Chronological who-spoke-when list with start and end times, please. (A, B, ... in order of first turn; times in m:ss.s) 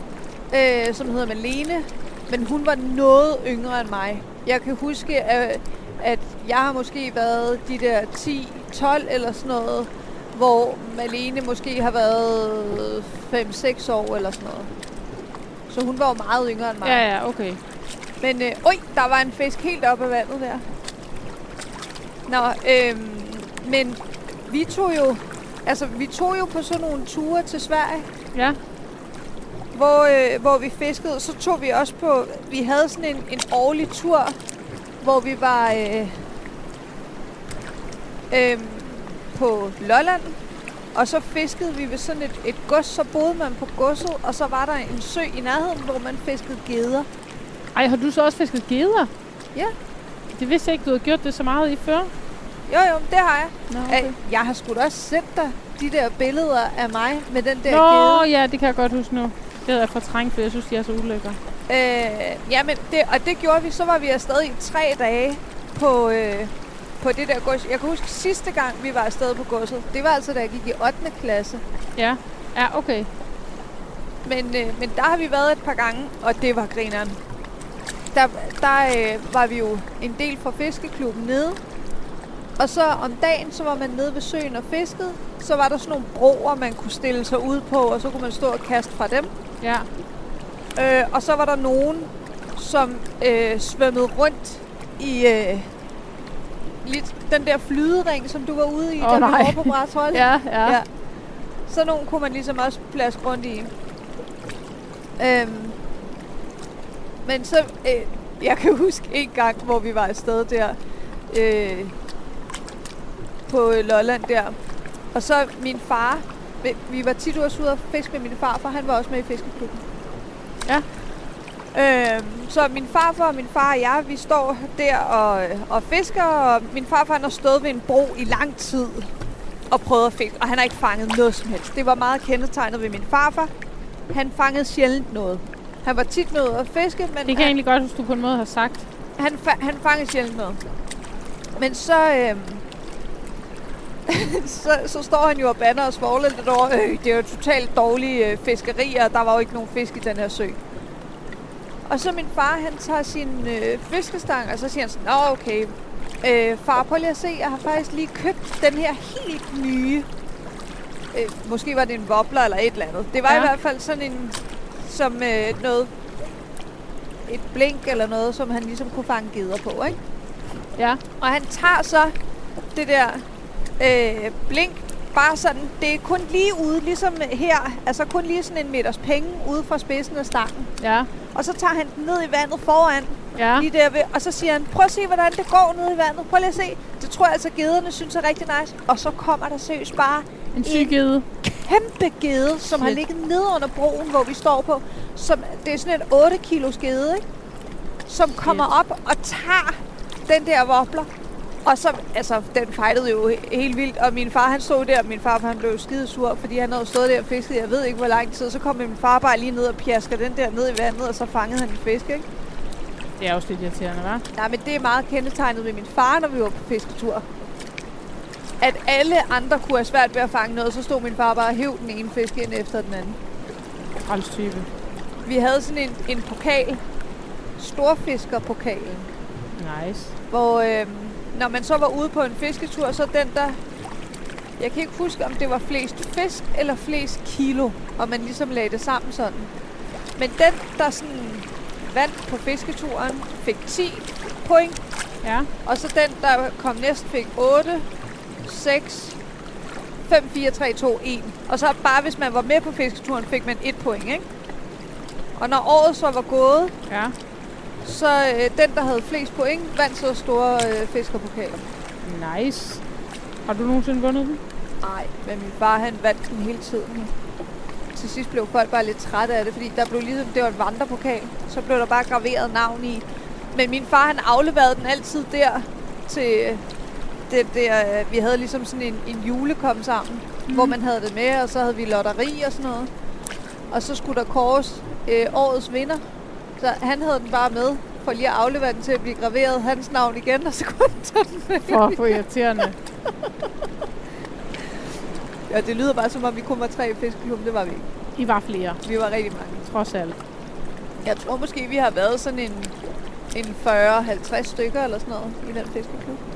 0:00.5-0:14.7 A
0:15.7-0:17.0 A
0:16.8-0:17.6 B
0:18.2-0:20.6 A
0:22.3-0:28.1 A
0:29.7-0:34.4 A
0:35.0-0:36.1 A
0:38.3-0:40.4 A
0:41.0-0:47.1 A
0:47.8-0:49.1 B
0:50.3-0:52.1 B
0:52.7-0:58.2 A
0:53.7-0:54.1 B
0:57.7-1:01.4 B
1:01.7-1:11.6 A
1:12.0-1:13.1 B
1:14.2-1:17.2 A
1:18.1-1:21.6 A
1:22.6-1:29.3 A
1:29.6-1:29.9 B
1:30.8-1:35.7 A
1:36.8-1:40.9 A
1:39.0-1:40.8 B
1:41.7-1:43.7 A
1:45.2-1:45.8 A
1:47.2-1:50.8 A
1:51.3-1:51.9 A
1:53.5-1:54.6 A
1:55.1-1:59.8 A
2:01.7-2:09.1 A
2:09.7-2:13.5 A
2:14.1-2:17.5 A
2:17.3-2:18.9 B
2:19.2-2:20.6 A
2:21.6-2:22.6 A
2:24.1-2:30.6 A
2:31.9-2:40.1 A
2:41.1-2:45.9 A
2:47.3-2:50.0 A
2:50.8-2:51.0 B
2:51.2-2:52.1 A
2:52.8-2:53.2 A
2:53.8-3:00.7 A
3:00.8-3:01.1 B
3:01.3-3:17.2 A
3:03.4-3:03.7 B
3:10.6-3:11.3 B
3:18.1-3:21.1 A
3:18.4-3:18.7 B
3:21.6-3:32.2 A
3:33.2-3:34.2 B
3:34.4-3:37.3 A
3:38.6-3:43.2 A
3:44.1-3:44.7 B
3:45.3-3:46.8 A
3:47.6-3:49.1 A
3:49.6-3:50.2 B
3:50.3-3:53.6 A
3:54.6-3:59.5 A
4:00.2-4:04.8 A
4:05.2-4:05.5 B
4:05.6-4:07.9 A
4:08.4-4:09.2 A
4:10.1-4:14.2 A
4:15.4-4:16.7 A
4:16.9-4:17.2 B
4:17.8-4:21.7 A
4:22.0-4:22.8 B
4:23.5-4:24.4 B
4:24.8-4:27.1 A
4:28.0-4:36.6 A
4:37.3-4:42.9 A
4:40.5-4:40.8 B
4:43.7-4:46.0 A
4:46.6-4:52.1 A
4:51.7-4:52.8 B
4:55.5-4:57.9 A
4:58.2-4:58.8 B
4:58.8-4:59.6 A
4:59.7-5:00.2 B
5:01.0-5:02.7 A
5:03.3-5:06.2 A